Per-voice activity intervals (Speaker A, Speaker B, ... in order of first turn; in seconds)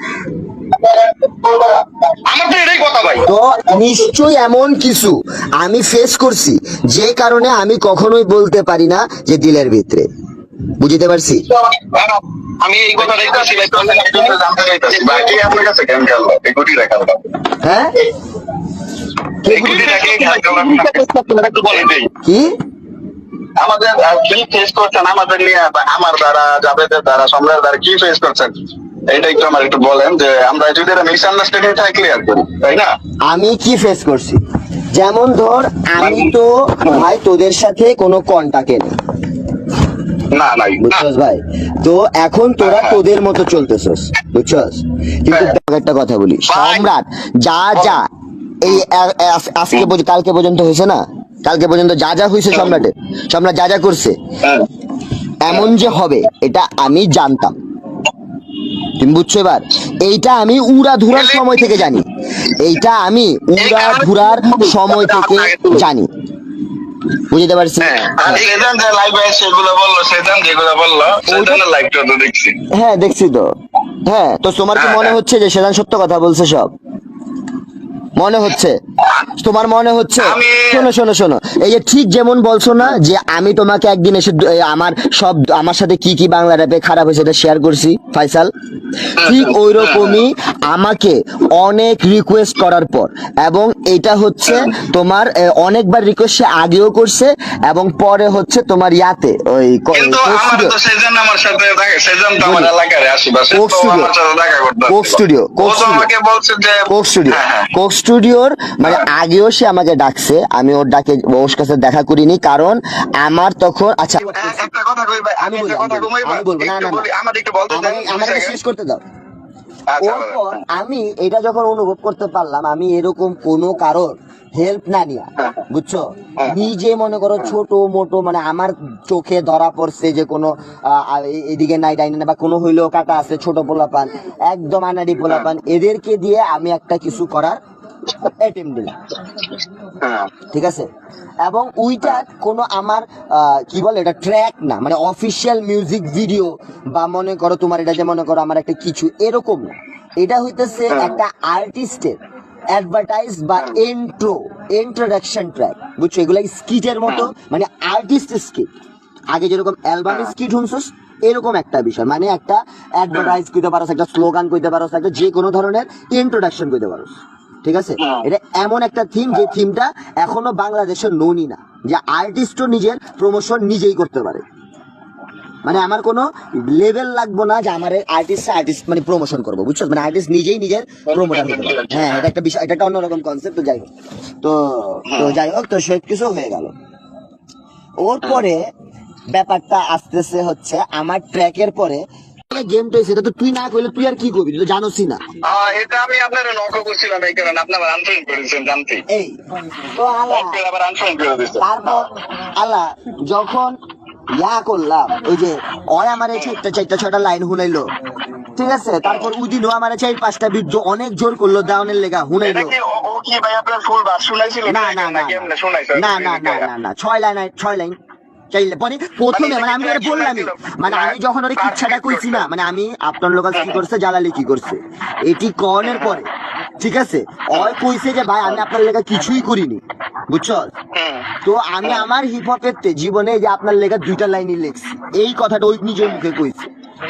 Speaker A: 1.5-3.3, 11.8-14.4, 14.9-15.4, 19.6-22.1, 63.8-65.8, 68.0-68.7
Speaker B: 3.2-10.1, 10.8-11.5, 17.6-18.1, 19.4-20.0, 22.2-22.6, 33.3-38.9, 40.8-48.0, 48.6-54.2, 55.4-57.6, 59.0-66.1, 67.2-68.0, 71.3-71.6, 72.7-73.5, 74.0-76.7, 78.2-88.5, 89.2-100.8, 102.4-102.7, 103.5-104.1, 104.9-106.1, 106.9-114.7, 115.4-117.1, 117.7-119.0, 120.0-137.6, 138.2-139.0, 140.5-140.9, 141.4-152.2, 152.7-158.7, 159.3-174.4, 175.6-183.9, 184.4-186.7, 188.0-188.6, 189.3-195.2, 199.1-200.6, 201.6-203.8, 204.4-207.9, 208.6-212.7, 214.7-217.9, 218.5-230.7, 231.4-236.7
Speaker C: 13.0-17.2, 19.5-21.0, 23.6-28.6, 29.1-32.9, 36.0-36.3, 40.3-41.0, 42.6-43.0, 52.5-52.8, 61.1-61.6, 67.9-72.6, 74.8-75.2, 80.2-80.8, 89.2-90.2, 94.5-94.7, 99.9-107.7, 114.2-118.6, 119.9-120.6, 140.0-140.3, 150.9-151.2, 160.1-160.3, 168.0-168.3, 181.1-182.3, 185.1-185.4, 195.4-199.0, 200.3-202.1, 209.1-209.3, 212.4-216.7, 219.3-222.5, 223.6-223.8, 225.8-226.2, 230.9-231.3